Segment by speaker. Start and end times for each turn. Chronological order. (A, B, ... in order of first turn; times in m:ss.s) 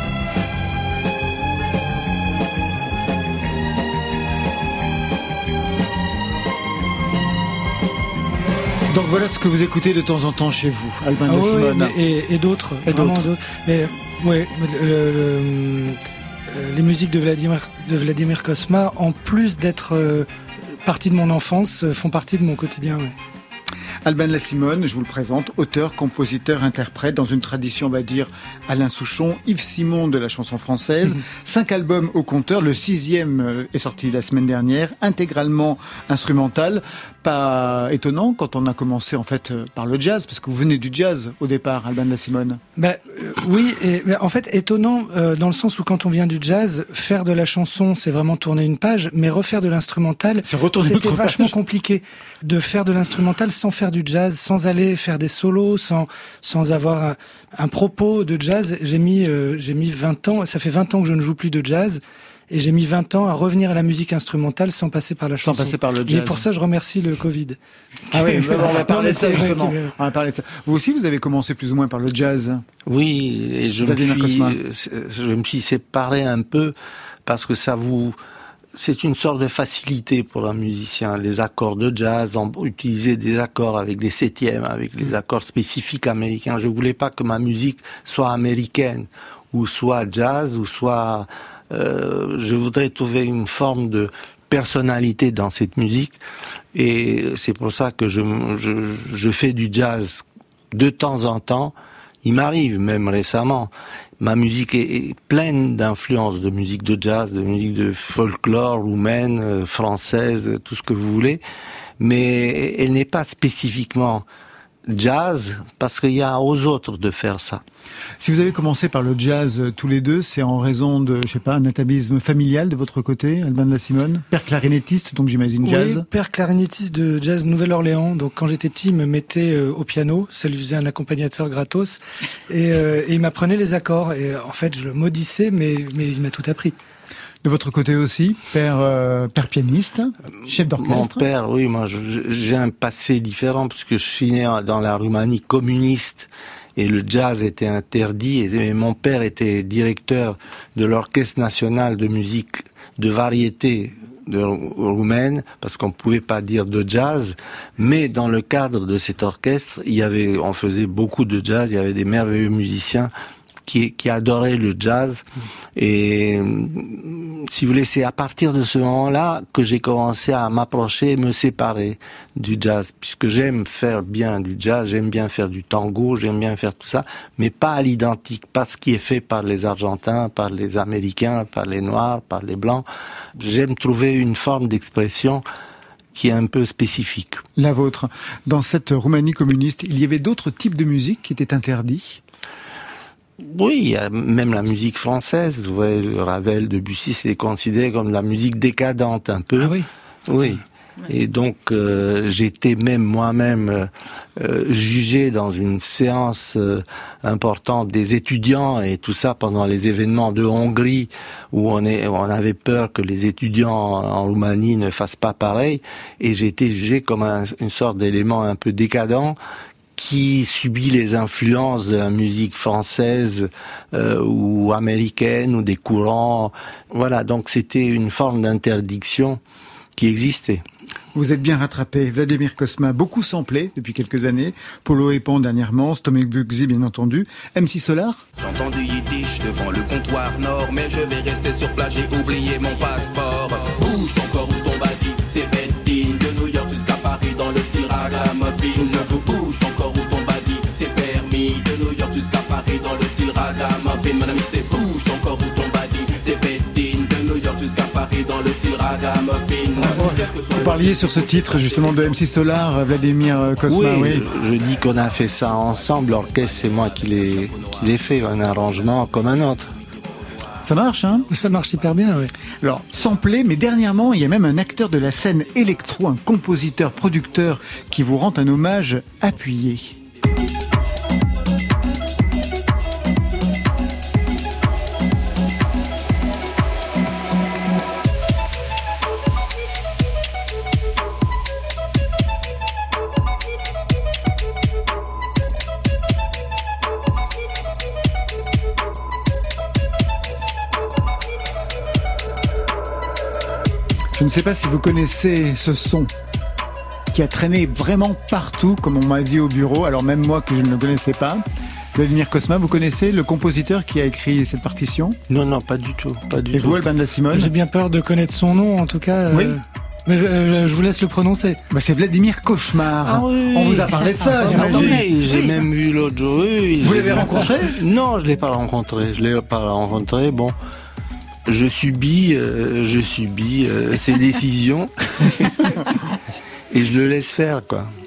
0:08.9-0:12.0 A
0:11.3-0:23.2 B
0:12.9-0:13.3 A
0:24.0-0:42.6 A
0:42.8-1:07.6 B
0:50.4-0:51.5 A
1:05.4-1:06.5 A
1:08.1-1:09.9 B
1:08.1-1:12.6 A
1:12.9-1:16.7 C
1:13.8-1:14.6 A
1:17.3-1:18.2 C
1:18.8-1:36.2 C
1:36.8-1:51.4 C
1:52.0-1:54.2 C
1:54.9-1:57.6 C
1:58.2-2:06.1 A
2:05.6-2:16.8 B
2:17.4-2:21.2 A
2:20.8-2:43.1 C
2:43.7-3:02.9 C
3:03.4-3:05.4 C
3:06.1-3:07.4 C
3:07.6-3:12.2 A
3:13.4-3:19.8 C
3:19.6-3:19.9 B
3:20.3-3:39.4 C
3:40.0-3:49.4 C
3:50.0-3:50.6 C
3:51.2-3:58.2 A
3:58.4-4:22.1 D
4:19.8-4:24.3 A
4:23.7-4:29.7 C
4:26.0-4:29.4 D
4:30.0-4:30.4 D
4:30.6-4:31.3 A
4:31.3-4:32.3 B
4:32.6-4:40.0 A
5:04.1-5:06.1 A
5:07.1-5:11.4 A
5:12.0-5:15.2 A
5:15.3-5:16.9 C
5:16.5-5:17.5 A
5:17.3-5:21.6 B
5:19.3-5:19.6 A
5:21.7-5:25.1 A
5:23.0-5:30.6 C
5:26.8-5:27.8 A
5:31.5-5:35.8 C
5:36.7-5:37.9 C